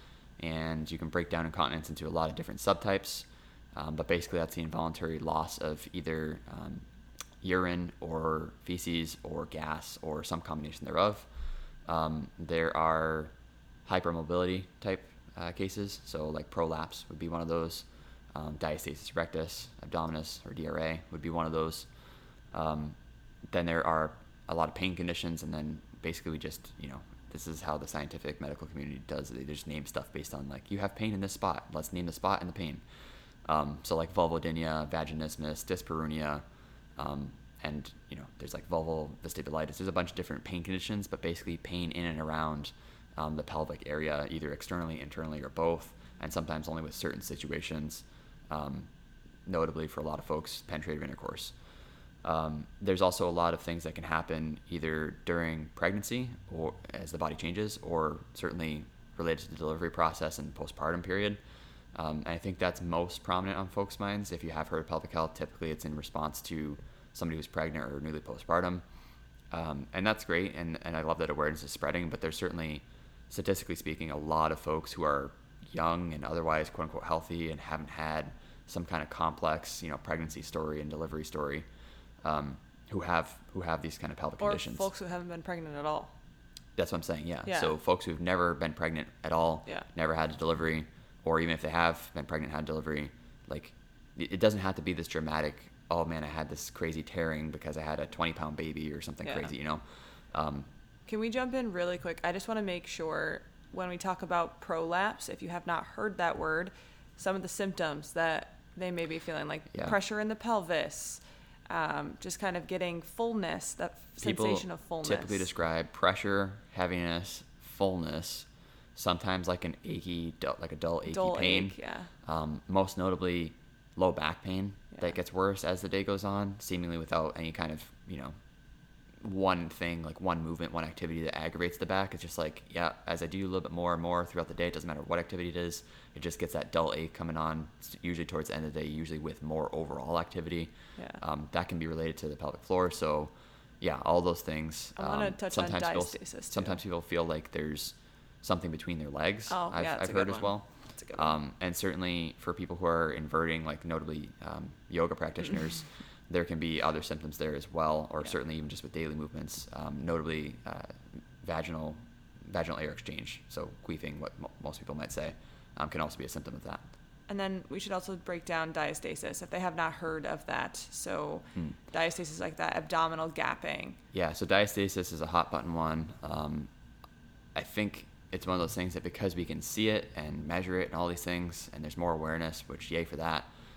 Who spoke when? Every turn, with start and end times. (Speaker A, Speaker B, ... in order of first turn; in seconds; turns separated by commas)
Speaker A: 0.4-6.8, Speaker A: 7.4-11.3, Speaker A: 11.9-13.3, Speaker A: 13.8-21.9, Speaker A: 22.5-22.9, Speaker A: 23.5-32.8, Speaker A: 33.4-36.4, Speaker A: 37.0-48.9, Speaker A: 49.4-51.5, Speaker A: 52.2-61.4, Speaker A: 61.9-68.8, Speaker A: 69.5-81.7, Speaker A: 82.2-84.9, Speaker B: 84.4-86.1, Speaker A: 86.8-100.7, Speaker B: 87.5-87.7, Speaker B: 99.2-99.5, Speaker B: 101.1-115.5, Speaker A: 114.2-128.3, Speaker B: 121.1-122.1, Speaker A: 129.2-166.8, Speaker B: 144.9-146.8, Speaker B: 149.5-151.3, Speaker B: 167.3-174.0, Speaker A: 174.1-176.7, Speaker A: 177.5-183.5